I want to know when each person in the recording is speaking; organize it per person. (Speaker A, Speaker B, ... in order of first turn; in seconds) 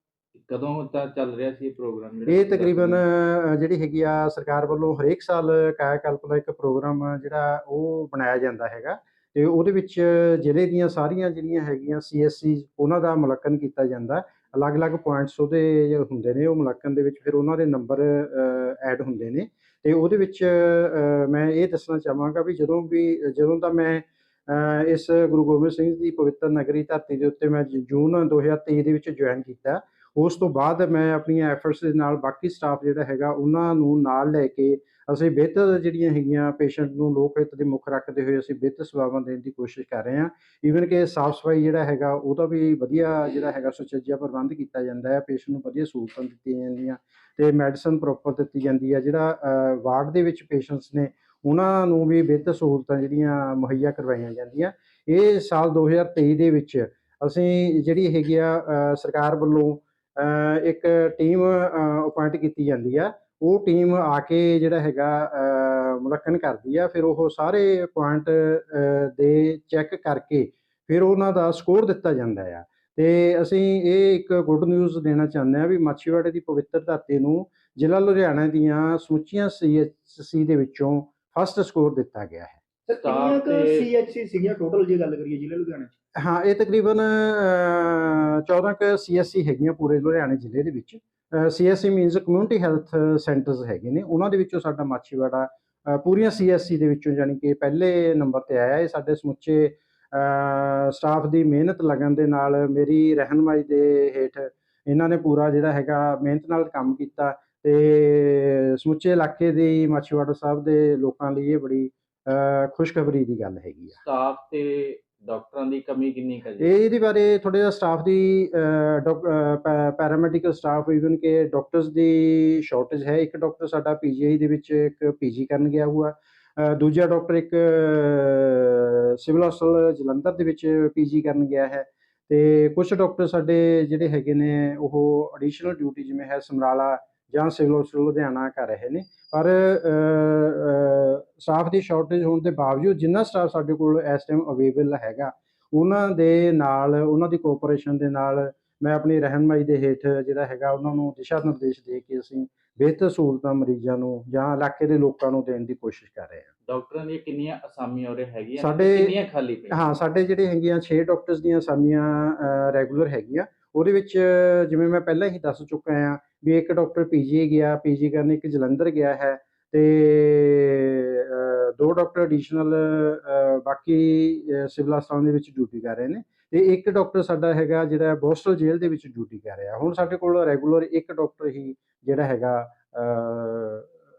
Speaker A: 0.3-3.0, 82.9-83.9, 113.9-116.8, 156.7-159.9
Speaker B: 2.3-82.6, 86.2-114.0, 116.6-156.5, 158.6-159.1, 159.7-183.9
Speaker C: 82.9-85.9